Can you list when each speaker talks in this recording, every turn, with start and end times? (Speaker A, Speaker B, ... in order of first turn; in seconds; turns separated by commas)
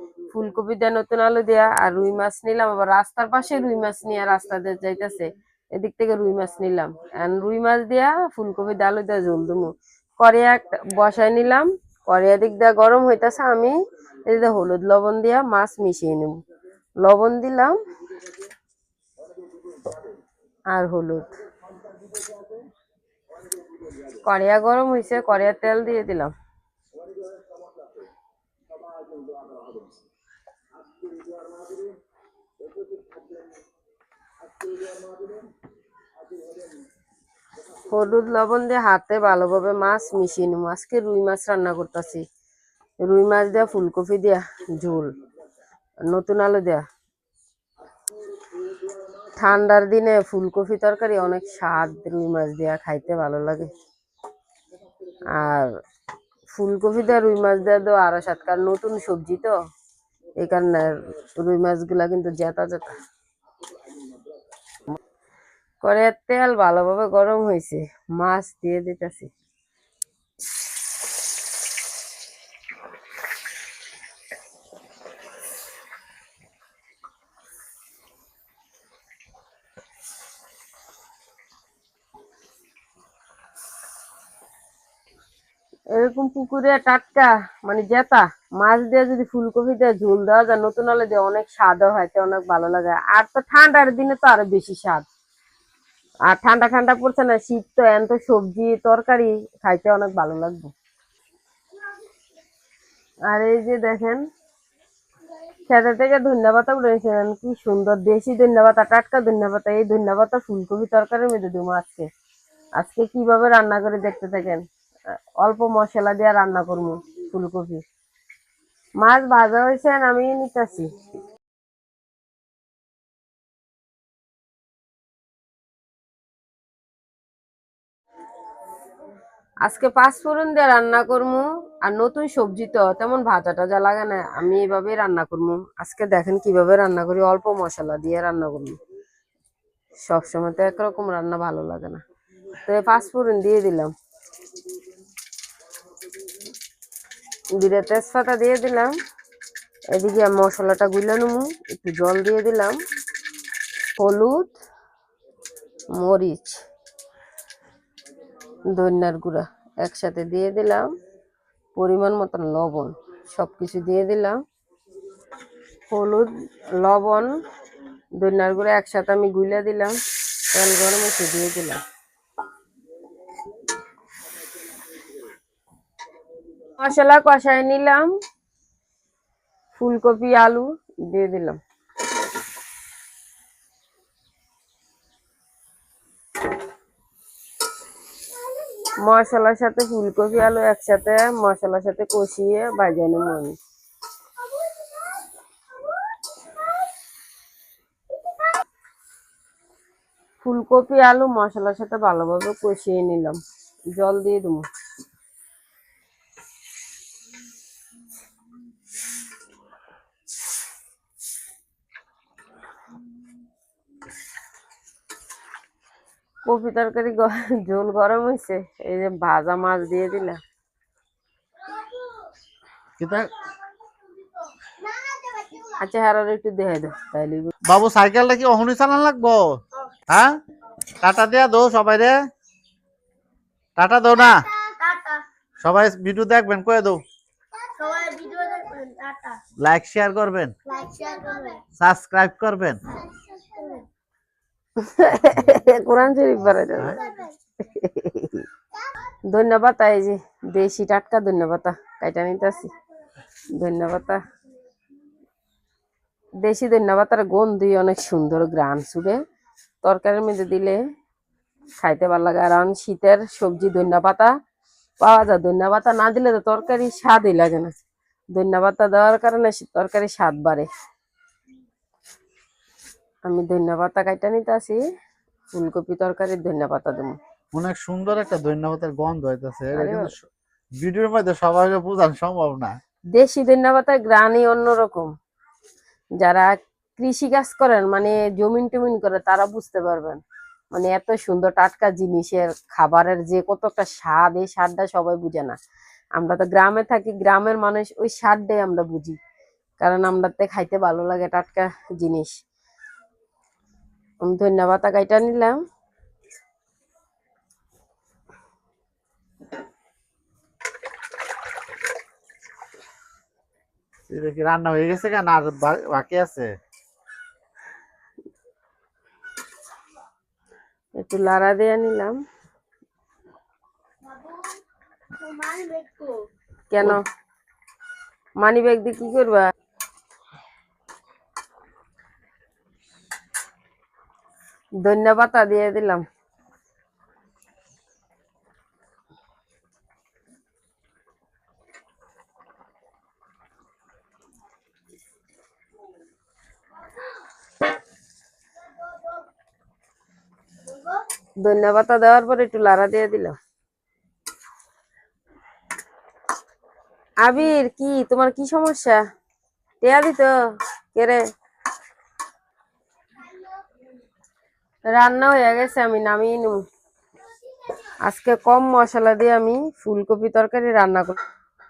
Speaker A: 0.3-16.4, Speaker A: 17.0-17.8, Speaker A: 20.7-21.4, Speaker A: 24.1-26.3, Speaker A: 37.9-42.3, Speaker A: 43.0-45.1, Speaker A: 46.1-46.9, Speaker A: 49.3-53.7, Speaker A: 55.3-55.7, Speaker A: 56.5-59.5, Speaker A: 60.4-63.0, Speaker A: 65.8-69.3, Speaker A: 85.9-95.0, Speaker A: 96.3-100.7, Speaker A: 103.3-104.2, Speaker A: 105.7-112.1, Speaker A: 112.8-117.8, Speaker A: 119.0-120.9, Speaker A: 129.7-138.8, Speaker A: 140.1-142.0, Speaker A: 142.7-143.9, Speaker A: 147.6-148.9, Speaker A: 149.9-152.8, Speaker A: 154.0-154.6, Speaker A: 155.9-156.6, Speaker A: 158.7-160.9, Speaker A: 161.8-164.4, Speaker A: 165.9-167.4, Speaker A: 168.2-171.8, Speaker A: 176.8-178.2, Speaker A: 179.8-181.6, Speaker A: 189.0-193.6, Speaker A: 200.4-203.4, Speaker A: 203.9-204.7, Speaker A: 216.4-220.4, Speaker B: 223.0-223.3, Speaker C: 224.8-225.8, Speaker A: 225.8-227.5, Speaker B: 227.7-229.6, Speaker B: 230.1-230.4, Speaker B: 231.0-232.2, Speaker B: 233.8-234.5, Speaker C: 234.5-235.2, Speaker B: 235.6-237.0, Speaker C: 237.6-239.4, Speaker B: 239.6-240.6, Speaker C: 240.7-241.6, Speaker B: 241.8-242.8, Speaker C: 243.1-243.9, Speaker A: 244.8-247.0, Speaker A: 247.6-248.5, Speaker A: 249.3-252.7, Speaker A: 253.5-254.2, Speaker A: 256.4-259.2, Speaker A: 259.8-260.8, Speaker A: 261.8-264.4, Speaker A: 265.0-267.7, Speaker A: 268.3-270.7, Speaker A: 273.2-274.8, Speaker A: 275.5-277.2, Speaker B: 277.5-282.8, Speaker A: 279.7-280.1, Speaker A: 283.1-285.1, Speaker A: 286.2-295.6, Speaker A: 296.2-299.2, Speaker A: 299.8-302.3, Speaker A: 304.2-305.6, Speaker B: 314.1-316.5, Speaker A: 320.9-322.2, Speaker C: 324.1-324.4, Speaker C: 325.2-326.3, Speaker A: 326.7-327.0, Speaker A: 328.4-329.5, Speaker A: 334.8-336.0, Speaker A: 351.4-353.4, Speaker A: 357.2-359.0, Speaker A: 359.8-361.2, Speaker A: 364.9-366.6, Speaker A: 368.1-371.2